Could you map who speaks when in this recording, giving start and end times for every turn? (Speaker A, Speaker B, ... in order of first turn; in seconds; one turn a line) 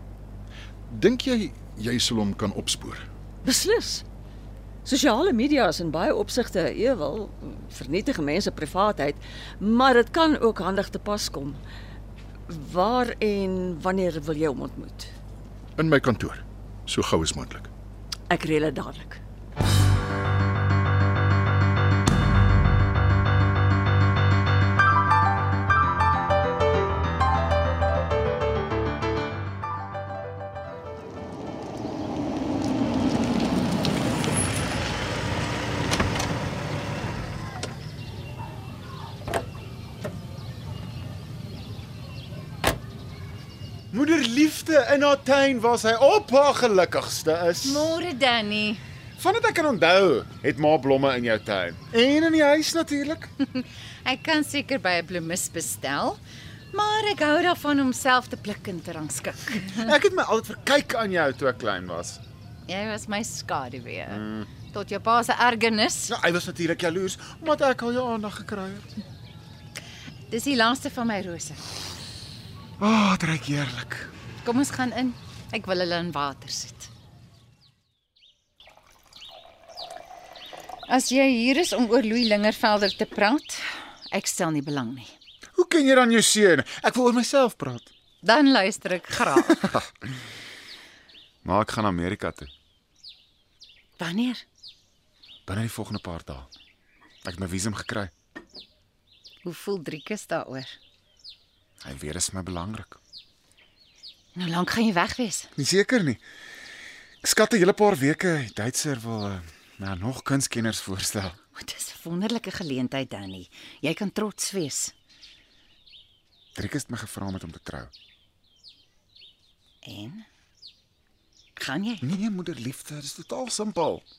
Speaker A: 0.9-3.0
Speaker B: 3.4-4.0
Speaker B: 4.8-11.6
Speaker B: 12.5-15.1
Speaker A: 15.8-17.7
Speaker B: 18.3-19.2
Speaker C: 43.9-47.9
Speaker D: 47.6-48.8
Speaker C: 49.2-53.3
Speaker D: 53.4-56.2
Speaker D: 56.7-59.8
Speaker C: 59.6-62.2
Speaker D: 62.7-66.1
Speaker C: 64.1-64.5
Speaker C: 66.1-68.9
Speaker D: 70.3-71.6
Speaker C: 72.8-74.1
Speaker D: 74.4-76.9
Speaker D: 80.9-85.1
Speaker C: 85.5-87.9
Speaker D: 88.2-89.8
Speaker C: 91.4-92.5
Speaker D: 94.0-94.4
Speaker C: 95.5-96.5
Speaker C: 97.2-98.1
Speaker D: 99.4-100.8
Speaker C: 101.8-103.0
Speaker D: 104.3-105.5
Speaker C: 105.5-106.2
Speaker C: 107.2-111.4
Speaker D: 111.5-114.9
Speaker C: 116.5-117.9
Speaker D: 119.8-120.2
Speaker D: 121.6-122.1
Speaker C: 122.0-124.0